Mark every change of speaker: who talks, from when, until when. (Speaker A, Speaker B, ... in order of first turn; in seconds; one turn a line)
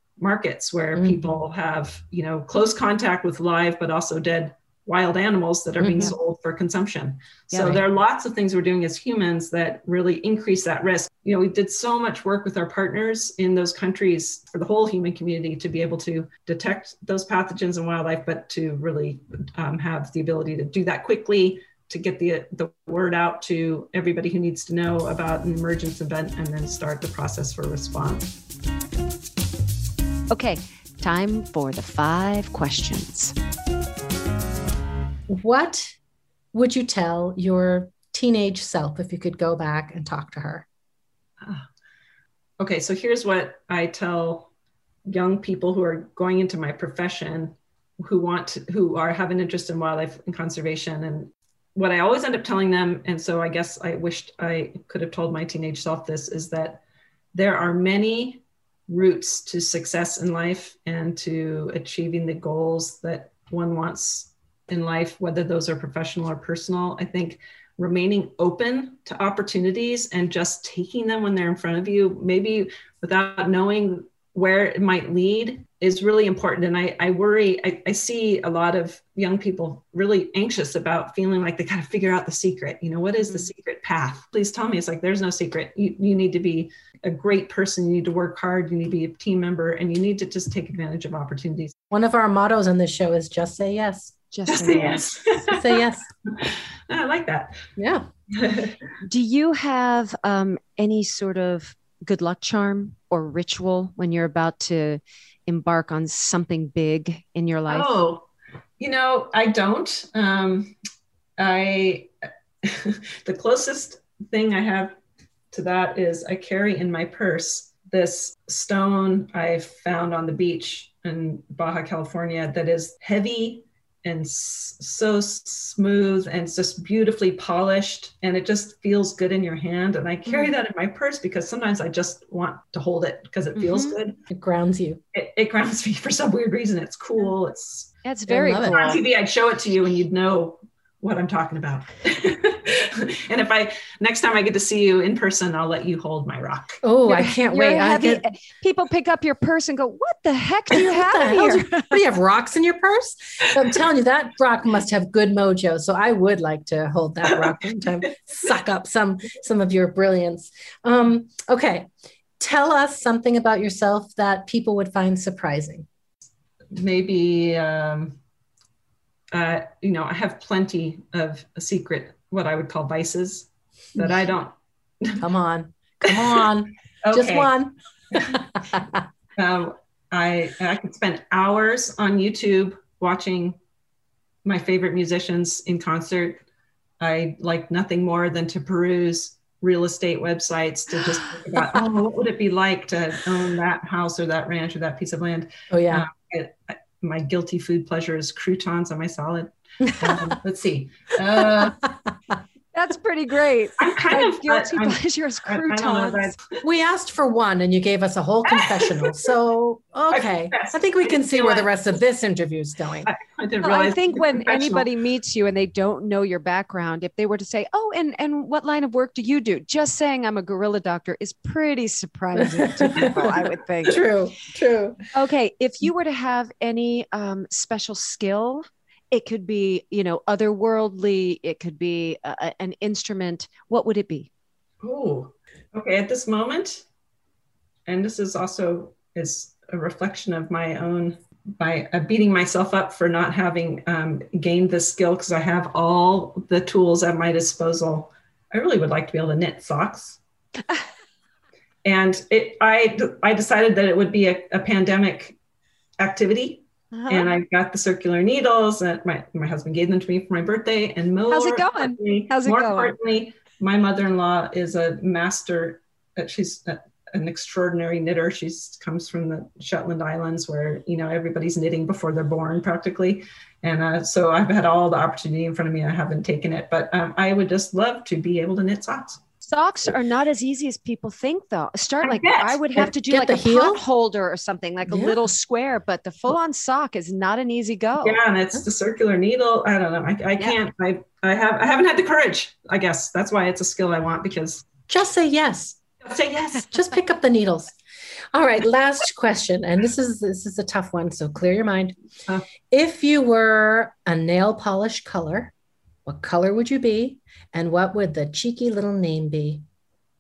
Speaker A: 0.2-28.3
Speaker B: 0.9-1.4
Speaker C: 5.8-6.1
Speaker B: 5.8-6.1
Speaker B: 7.5-7.8
Speaker C: 30.3-33.3
Speaker B: 35.3-35.9
Speaker B: 36.5-40.6
Speaker A: 41.4-41.6
Speaker A: 42.6-44.5
Speaker A: 45.0-56.8
Speaker A: 57.3-91.7
Speaker B: 91.9-94.2
Speaker C: 94.3-95.1
Speaker A: 94.5-97.7
Speaker B: 95.5-96.1
Speaker B: 97.8-98.0
Speaker A: 98.3-98.8
Speaker C: 99.0-108.0
Speaker A: 107.7-108.2
Speaker A: 108.8-110.7
Speaker A: 111.4-112.1
Speaker A: 112.6-114.9
Speaker A: 115.5-134.2
Speaker C: 133.6-133.9
Speaker B: 134.3-135.0
Speaker A: 135.1-137.9
Speaker C: 138.0-139.0
Speaker B: 138.3-138.9
Speaker A: 138.7-146.8
Speaker B: 146.8-148.2
Speaker C: 147.1-152.0
Speaker B: 151.0-165.9
Speaker A: 166.7-168.2
Speaker A: 169.3-175.2
Speaker B: 175.2-177.7
Speaker A: 176.0-176.4
Speaker A: 177.0-177.5
Speaker A: 178.1-178.4
Speaker B: 178.3-179.0
Speaker A: 179.4-183.6
Speaker A: 184.4-186.4
Speaker A: 187.0-201.8
Speaker B: 195.7-196.1
Speaker B: 199.8-200.4
Speaker B: 201.4-202.1
Speaker C: 202.7-206.3
Speaker A: 203.8-206.5
Speaker B: 206.6-213.1
Speaker A: 208.5-209.3
Speaker A: 210.1-211.7
Speaker A: 213.0-214.9
Speaker C: 213.6-224.0
Speaker B: 222.3-223.2
Speaker B: 223.9-225.0
Speaker C: 225.1-234.3
Speaker A: 234.8-236.8
Speaker A: 237.8-250.2
Speaker A: 251.8-255.3
Speaker A: 256.0-279.2
Speaker C: 256.9-257.3
Speaker C: 261.3-262.9
Speaker C: 279.4-288.2
Speaker A: 282.0-282.8
Speaker B: 283.0-283.8
Speaker B: 284.9-285.2
Speaker A: 288.0-294.6
Speaker B: 294.9-295.8
Speaker A: 296.0-296.8
Speaker B: 296.5-297.8
Speaker B: 298.3-301.9
Speaker B: 302.7-305.5
Speaker B: 306.0-309.6